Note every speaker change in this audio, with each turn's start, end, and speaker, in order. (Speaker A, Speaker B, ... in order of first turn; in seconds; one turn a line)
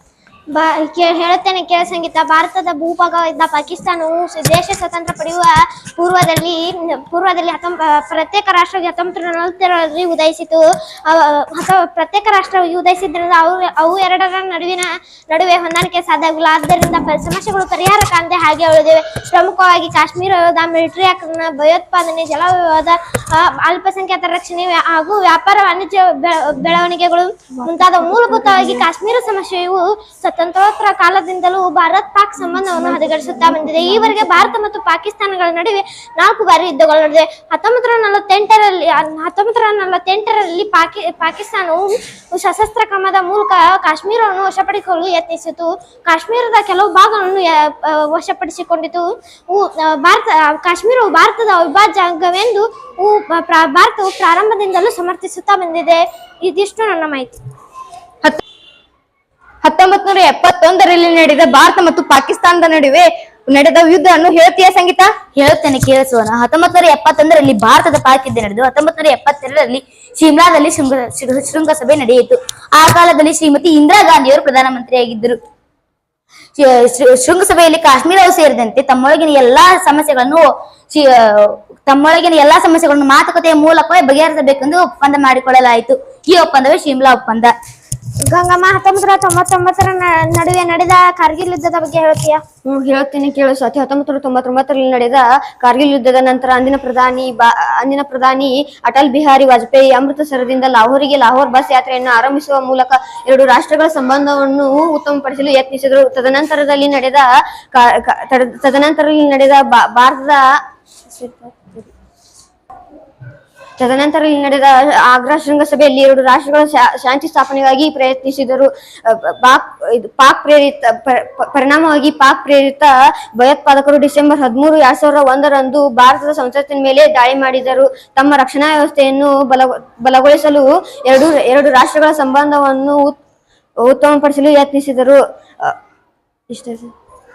Speaker A: 0.5-57.4
Speaker B: 27.7-28.6
Speaker B: 33.2-34.4
Speaker C: 59.6-65.1
Speaker D: 65.3-75.4
Speaker D: 76.6-87.5
Speaker A: 88.2-92.4
Speaker B: 92.7-110.5
Speaker B: 111.1-111.9
Speaker B: 113.8-133.2
Speaker B: 133.8-135.8
Speaker B: 136.5-136.9